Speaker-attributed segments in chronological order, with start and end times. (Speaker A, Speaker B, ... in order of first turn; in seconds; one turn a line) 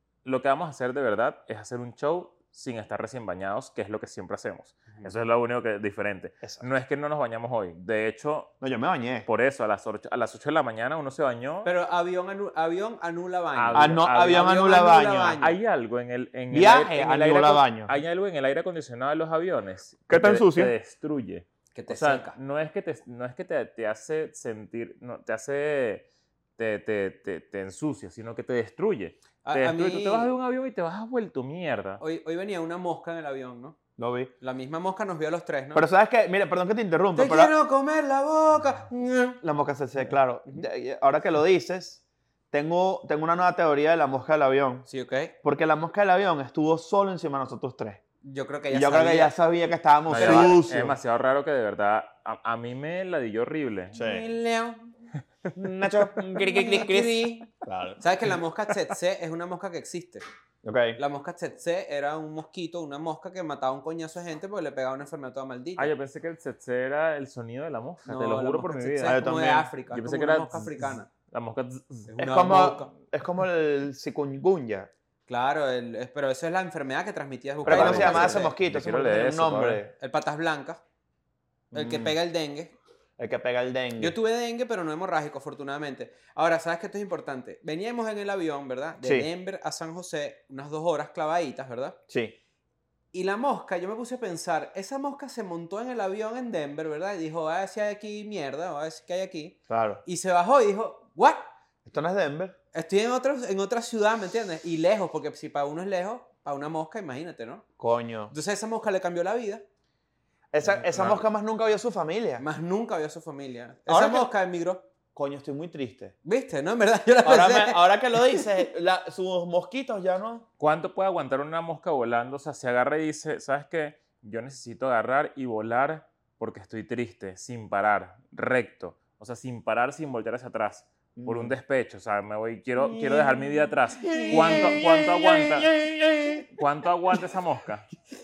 Speaker A: 0.2-8.5
Speaker B: 8.6-9.3
Speaker A: 9.2-11.7
Speaker C: 11.6-15.6
Speaker A: 13.5-14.6
Speaker B: 13.7-15.4
Speaker A: 15.4-26.0
Speaker B: 16.5-17.9
Speaker B: 20.1-20.7
Speaker C: 21.7-22.4
Speaker A: 26.6-32.0
Speaker C: 29.4-30.3
Speaker C: 32.0-33.8
Speaker B: 34.0-34.3
Speaker C: 34.4-35.9
Speaker B: 35.7-37.5
Speaker C: 37.1-39.4
Speaker B: 39.4-44.9
Speaker C: 44.9-45.3
Speaker B: 45.4-48.0
Speaker C: 48.2-49.3
Speaker B: 48.7-51.0
Speaker C: 50.1-50.5
Speaker A: 50.1-53.9
Speaker B: 53.9-54.2
Speaker C: 53.9-54.9
Speaker B: 55.5-58.0
Speaker C: 56.4-60.2
Speaker B: 60.6-61.0
Speaker C: 61.0-65.9
Speaker A: 65.8-69.2
Speaker C: 68.0-71.1
Speaker B: 69.0-69.7
Speaker A: 69.9-72.1
Speaker C: 72.1-72.9
Speaker B: 72.2-74.9
Speaker C: 75.3-78.5
Speaker B: 77.6-79.9
Speaker A: 77.6-79.8
Speaker C: 80.0-80.8
Speaker B: 81.7-82.2
Speaker C: 81.7-82.8
Speaker B: 83.2-84.1
Speaker C: 84.0-92.0
Speaker B: 89.0-89.3
Speaker B: 92.1-92.3
Speaker C: 93.1-101.5
Speaker B: 99.7-100.0
Speaker B: 101.8-102.5
Speaker C: 102.7-107.6
Speaker B: 107.8-108.3
Speaker C: 108.3-109.6
Speaker B: 110.5-112.4
Speaker A: 110.9-111.2
Speaker C: 112.4-114.8
Speaker B: 113.9-114.3
Speaker B: 115.1-116.1
Speaker C: 116.2-118.6
Speaker B: 117.2-120.5
Speaker A: 120.6-135.8
Speaker B: 131.2-131.5
Speaker B: 134.0-136.6
Speaker C: 134.1-134.6
Speaker A: 136.5-137.9